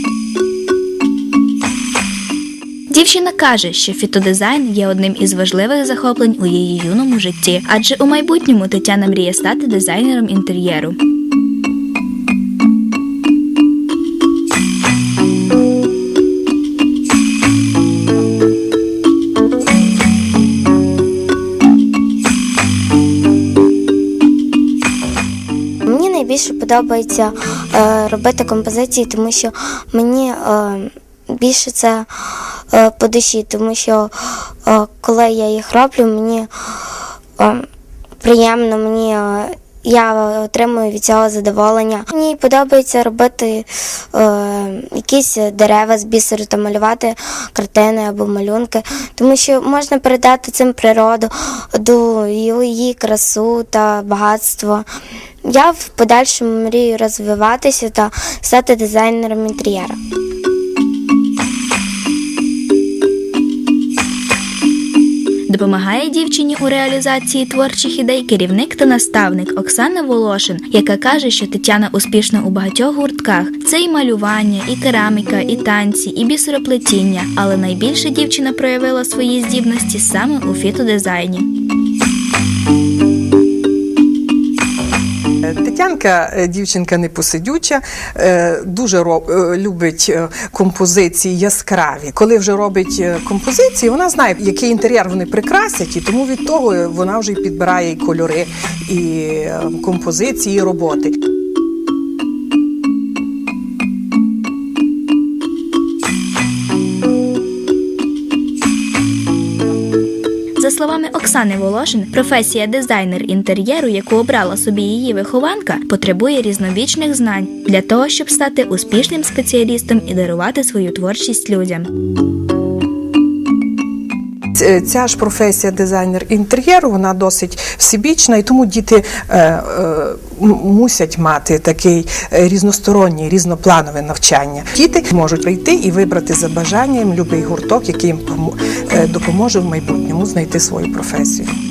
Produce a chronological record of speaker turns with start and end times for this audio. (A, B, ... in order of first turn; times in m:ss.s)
0:02.9-0:11.0 A
0:25.8-0:37.7 B
0:38.2-0:54.9 B
0:55.4-1:00.0 B
1:05.5-1:21.5 A
1:25.6-1:41.1 C
1:50.6-2:01.9 A
2:04.6-2:21.5 C